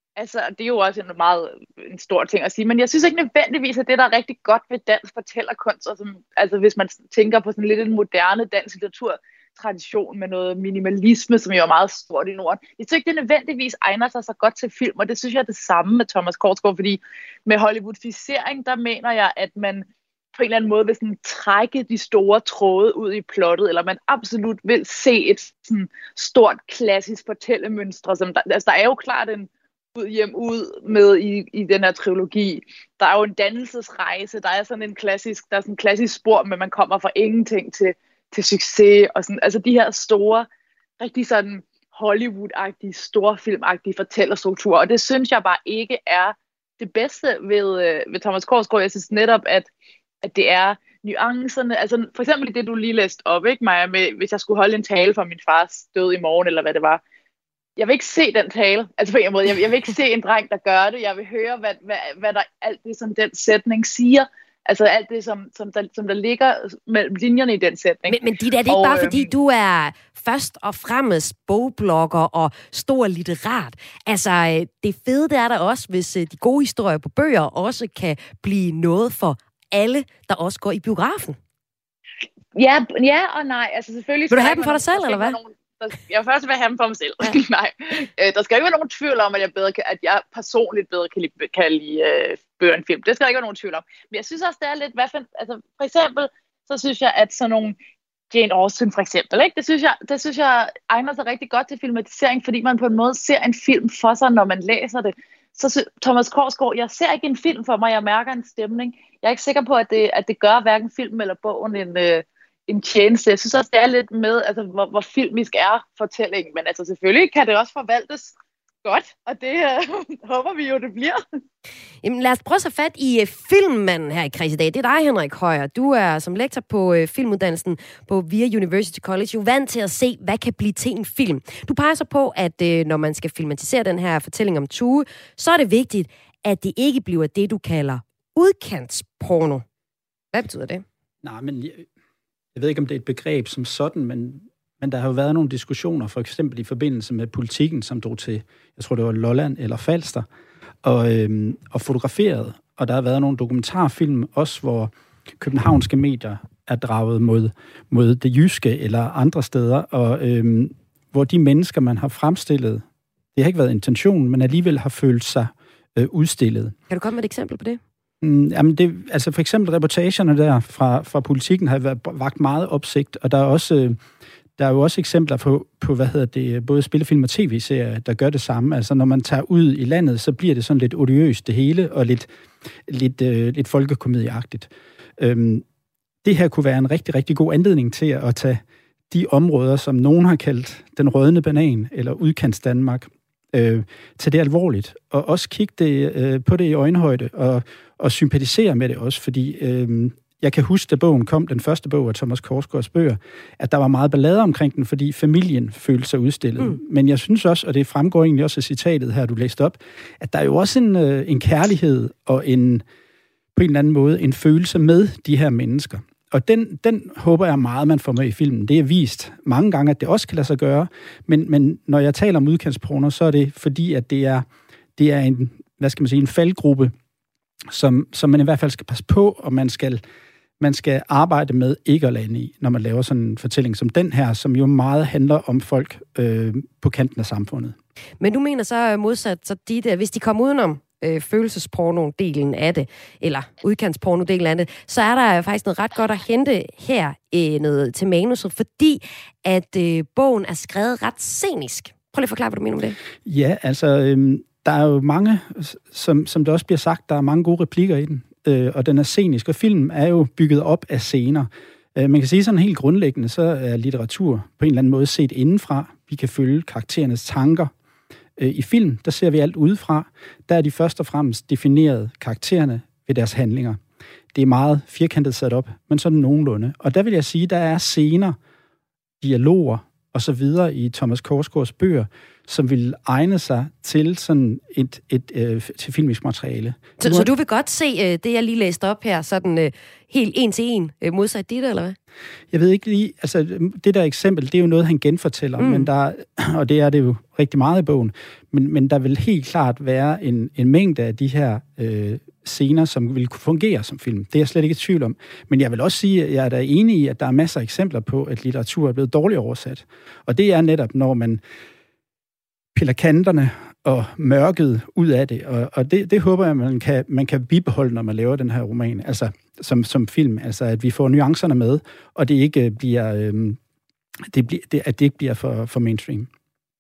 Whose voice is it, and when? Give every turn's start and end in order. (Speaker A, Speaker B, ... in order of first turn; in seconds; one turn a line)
Speaker A: 0.2-40.5
Speaker A: 41.0-49.7
Speaker A: 50.2-57.0
Speaker A: 57.8-69.3
Speaker B: 68.1-81.4
Speaker A: 82.5-97.8
Speaker B: 84.3-85.4
Speaker A: 98.3-121.2
Speaker B: 122.0-139.7
Speaker B: 140.3-140.8
Speaker C: 141.2-141.8
Speaker C: 142.6-150.3
Speaker C: 150.8-162.8
Speaker C: 163.3-166.7
Speaker B: 166.9-167.8
Speaker C: 168.2-174.0
Speaker C: 174.6-182.3
Speaker C: 182.9-185.6
Speaker C: 186.2-212.8
Speaker C: 213.6-226.9
Speaker C: 227.7-230.0
Speaker C: 230.6-237.8
Speaker B: 238.2-253.0
Speaker C: 253.2-267.7
Speaker C: 268.4-273.8
Speaker C: 274.3-278.4
Speaker C: 279.2-287.3
Speaker B: 287.0-292.0
Speaker C: 292.5-311.4
Speaker B: 295.6-295.9
Speaker C: 312.8-323.6
Speaker C: 324.3-326.3